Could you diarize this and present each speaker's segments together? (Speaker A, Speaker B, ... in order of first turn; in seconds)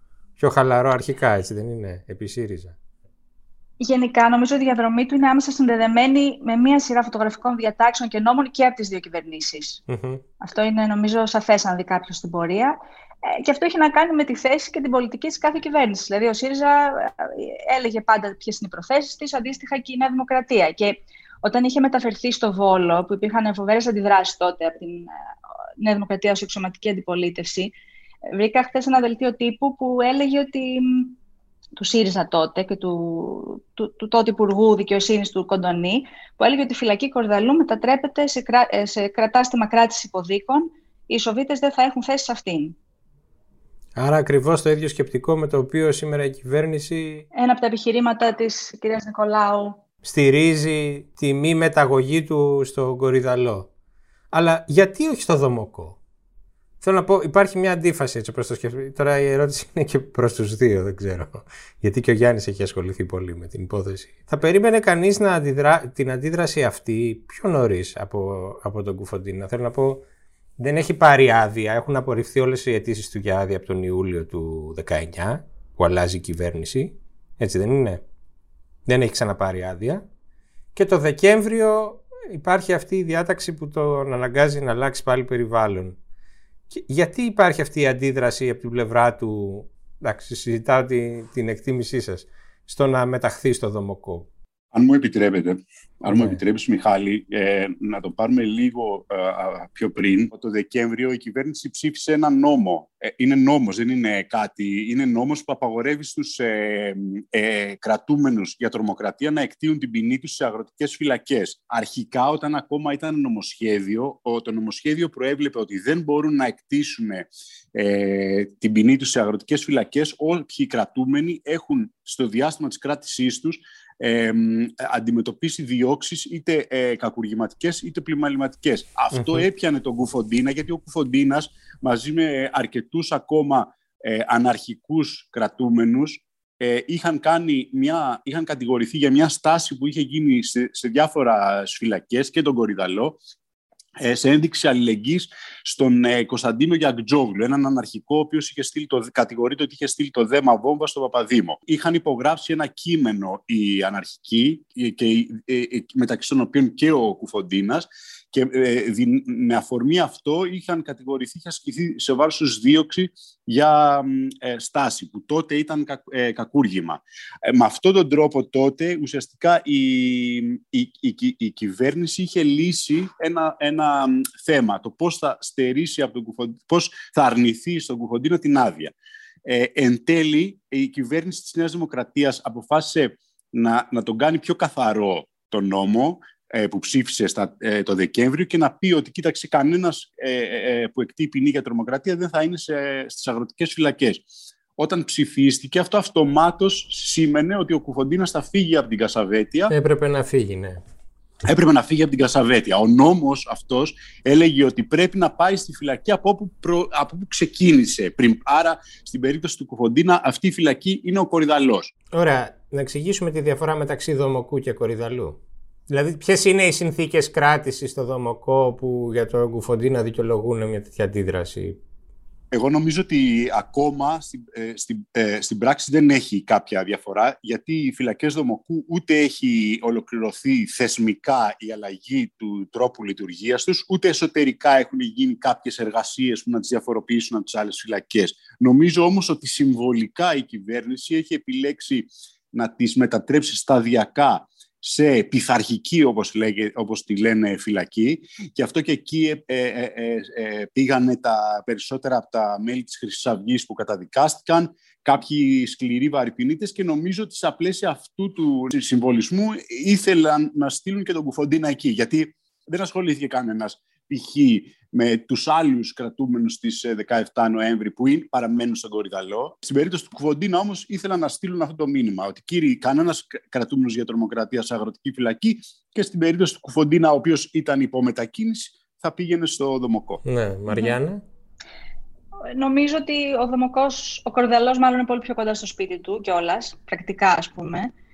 Speaker A: 0.4-2.7, 9.9-10.2, 44.0-47.2, 50.0-53.7, 54.3-56.0, 56.8-70.0, 70.6-78.0, 78.8-80.0, 80.7-86.0, 86.7-94.3, 96.1-96.4, 129.1-129.4, 199.7-200.8, 212.1-215.4, 215.9-221.8, 280.2-281.2
Speaker B: 3.8-9.8, 10.4-25.1, 25.8-27.7, 28.3-31.2, 31.8-42.8, 47.3-49.8, 280.7-280.9, 282.5-287.9
Speaker C: 94.7-143.2, 144.0-178.9, 179.4-199.7, 201.4-211.9, 222.5-280.2